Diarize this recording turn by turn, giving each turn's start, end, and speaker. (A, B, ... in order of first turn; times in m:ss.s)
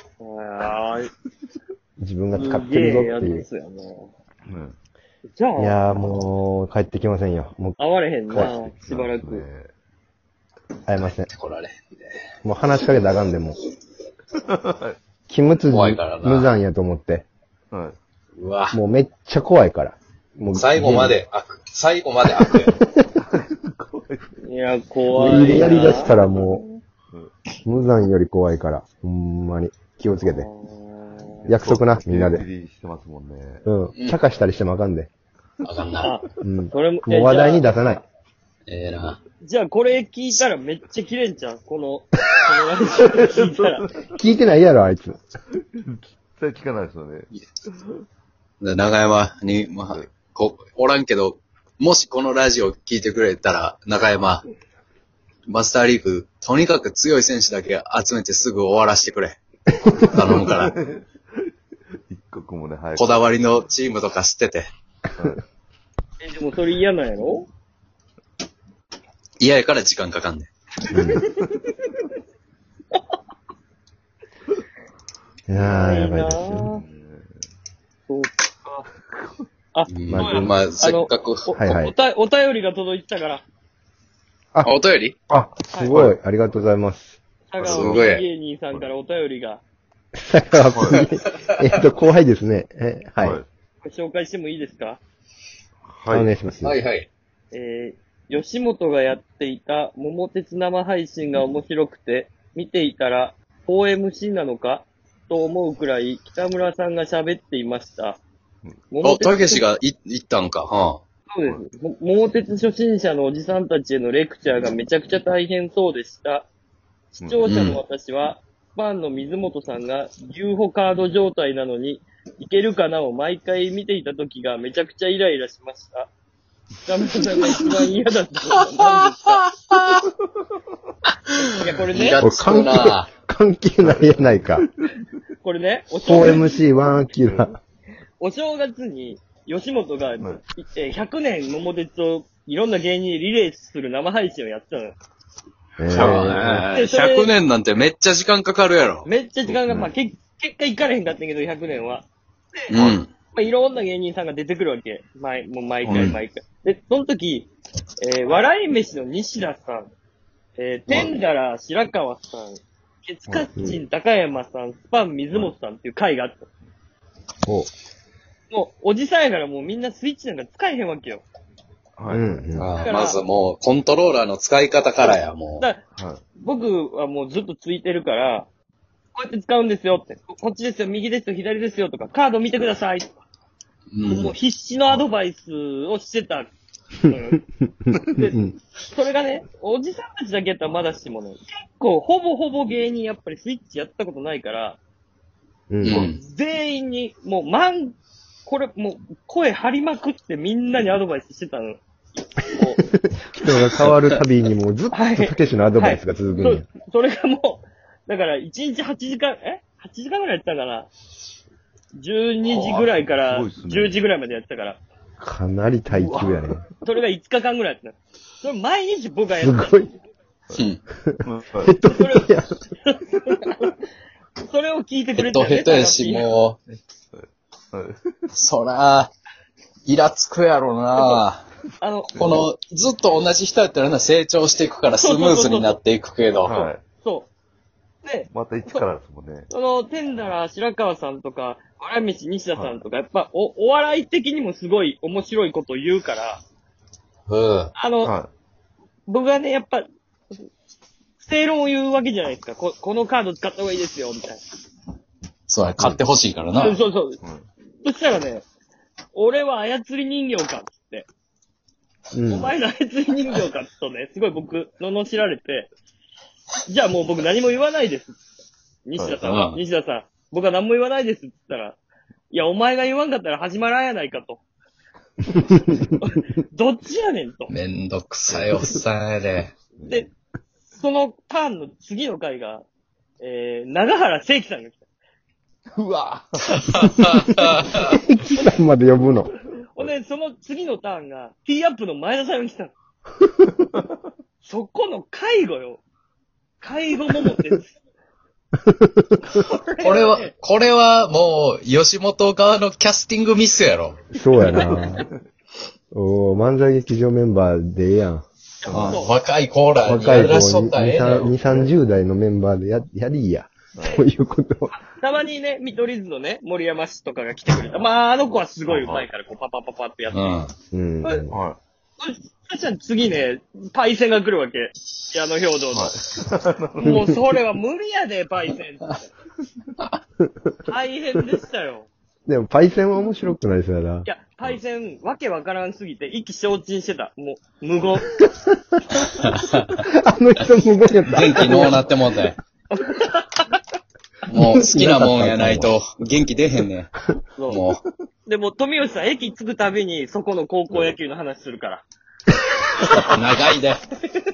0:00.2-0:01.1 A
0:02.0-0:03.4 B
0:02.3-0:04.1 A
0:04.5-0:04.8 C
0:05.3-0:06.2 A
0:05.6-0:07.8 B
0:07.8-0:09.4 A
0:08.3-0:09.7 C
0:10.9-0:11.3 B
0:11.1-0:12.2 D
0:12.4-0:13.6 B
0:14.4-0:15.0 C
0:15.3-0:17.3 B
0:15.7-0:16.5 D
0:17.7-0:18.0 C
0:18.4-0:18.8 D
0:18.7-0:21.2 B
0:20.5-0:22.8 D
0:22.8-0:23.1 B
0:23.2-0:24.3 C
0:24.4-0:26.8 A
0:25.1-0:26.6 B
0:27.6-0:30.5 B
0:30.2-0:31.5 A
0:31.4-0:33.7 C
0:31.5-0:32.4 B
0:33.7-0:35.1 B
0:35.6-0:36.2 D
0:36.0-0:37.7 A
0:36.4-0:38.0 B
0:38.7-0:39.2 D
0:39.4-0:43.9 A
0:43.2-0:44.1 C
0:44.2-0:45.2 B
0:45.6-0:48.0 C
0:48.6-0:54.4 D
0:55.5-0:59.4 D
1:00.0-1:00.8 D
1:00.2-1:01.1 C
1:02.1-1:03.2 C
1:03.0-1:04.7 D
1:05.2-1:05.4 C
1:06.2-1:07.5 A
1:09.4-1:10.5 D
1:10.9-1:11.3 B
1:11.0-1:11.9 A
1:15.5-1:16.8 B
1:15.6-1:16.8 A
1:16.8-1:17.4 C
1:18.1-1:18.9 A
1:19.2-1:19.4 C
1:19.7-1:23.4 A
1:19.9-1:21.5 D
1:20.1-1:20.6 B
1:21.6-1:21.9 B
1:24.6-1:25.2 D
1:25.3-1:27.2 B
1:25.7-1:26.0 A
1:25.9-1:26.2 C
1:27.5-1:29.6 A
1:27.6-1:28.1 C
1:27.6-1:28.2 D
1:30.2-1:33.4 B
1:30.8-1:31.0 C
1:33.8-1:35.0 A
1:35.9-1:36.4 C
1:36.1-1:36.8 B
1:36.6-1:37.1 D
1:37.5-1:48.2 A
1:48.9-1:49.6 A
1:49.0-1:51.0 D
1:51.3-1:56.5 A
1:57.2-2:06.1 A
1:57.2-1:57.5 C
1:57.4-1:57.8 D
2:06.8-2:09.4 A
2:09.3-2:10.0 D
2:10.0-2:10.4 C
2:11.6-2:12.2 A
2:11.8-2:13.1 D
2:12.2-2:14.7 B
2:15.4-2:16.5 A
2:16.0-2:17.6 B
2:18.2-2:25.0 A
2:25.8-2:26.6 B
2:25.9-2:29.1 D
2:26.7-2:27.3 A
2:29.1-2:32.7 A
2:29.5-2:29.8 C
2:32.7-2:33.1 D
2:33.3-2:37.5 A
2:35.8-2:36.2 C
2:35.9-2:36.2 D
2:38.0-2:39.9 A
2:40.6-2:46.5 A
2:47.4-2:47.7 B
2:48.5-2:51.2 A
2:52.0-2:52.3 C
2:52.1-2:52.7 B
2:52.6-2:55.7 D
2:52.8-2:53.2 A
2:56.0-2:56.2 C
2:56.4-2:58.5 A
2:59.2-3:03.1 A
3:03.9-3:04.4 D
3:04.1-3:06.5 A
3:07.1-3:14.8 A
3:07.9-3:08.5 B
3:15.7-3:16.1 B
3:15.8-3:16.2 D
3:15.9-3:21.8 A
3:22.4-3:22.8 A
3:22.9-3:26.7 B
3:24.9-3:30.9 A
3:32.0-3:34.8 A
3:32.4-3:34.0 C
3:35.2-3:36.6 B
3:36.0-3:39.8 A
3:39.4-3:39.9 B
3:40.6-3:40.8 D
3:41.1-3:42.6 B
3:41.2-3:41.7 C
3:41.9-3:43.7 A
3:44.4-3:46.3 A
3:45.2-3:46.6 D
3:47.1-3:48.2 C
3:48.3-3:49.1 D
3:49.9-3:51.4 D
3:51.8-3:52.2 A
3:52.1-3:56.6 D
3:55.0-3:55.8 A
3:56.4-3:56.8 C
3:56.5-3:57.3 A
3:58.0-3:58.8 A
3:58.3-3:59.5 C
3:59.5-4:06.4 A
4:02.6-4:02.8 C
4:07.3-4:07.7 D
4:07.8-4:08.1 A
4:08.0-4:08.3 C
4:09.1-4:09.9 A
4:11.2-4:14.4 A
4:15.5-4:16.8 D
4:16.6-4:17.2 A
4:17.8-4:18.4 A
4:19.1-4:21.1 A
4:22.1-4:22.5 B
4:22.3-4:25.7 A
4:26.7-4:28.2 A
4:28.9-4:31.8 A
4:29.2-4:29.6 D
4:32.3-4:34.4 A
4:36.0-4:37.5 A
4:37.5-4:39.5 D
4:39.8-4:40.1 C
4:39.8-4:40.1 A
4:40.7-4:42.6 A
4:43.2-4:44.8 A
4:45.7-4:47.2 C
4:46.8-4:47.9 D
4:47.9-4:49.3 B
4:49.7-4:52.7 A
4:54.4-4:55.8 A
4:56.6-4:57.7 A
4:58.7-4:59.4 B
4:59.3-5:00.3 A
4:59.8-5:04.0 D
5:04.1-5:05.1 B
5:05.9-5:08.2 B
5:08.6-5:09.1 A
5:08.7-5:09.0 C
5:08.7-5:11.4 D
5:09.8-5:14.7 B
5:13.8-5:14.0 C
5:14.8-5:20.4 A
5:18.7-5:19.1 C
5:20.1-5:20.5 D
5:20.7-5:21.4 B
5:21.3-5:21.6 C
5:22.0-5:26.0 A
5:25.7-5:27.1 C
5:26.8-5:29.1 A
5:26.8-5:27.2 B
5:30.7-5:31.9 A
5:32.3-5:34.1 B
5:34.0-5:38.2 A
5:38.2-5:38.6 B
5:39.3-5:39.8 D
5:39.8-5:41.8 B
5:41.1-5:42.4 D
5:42.7-5:43.6 A
5:44.3-5:46.9 D
5:44.3-5:45.7 B
5:47.4-5:47.6 A
5:47.5-5:47.8 D
5:48.3-5:51.8 A
5:52.8-5:53.2 A
5:52.9-5:53.8 D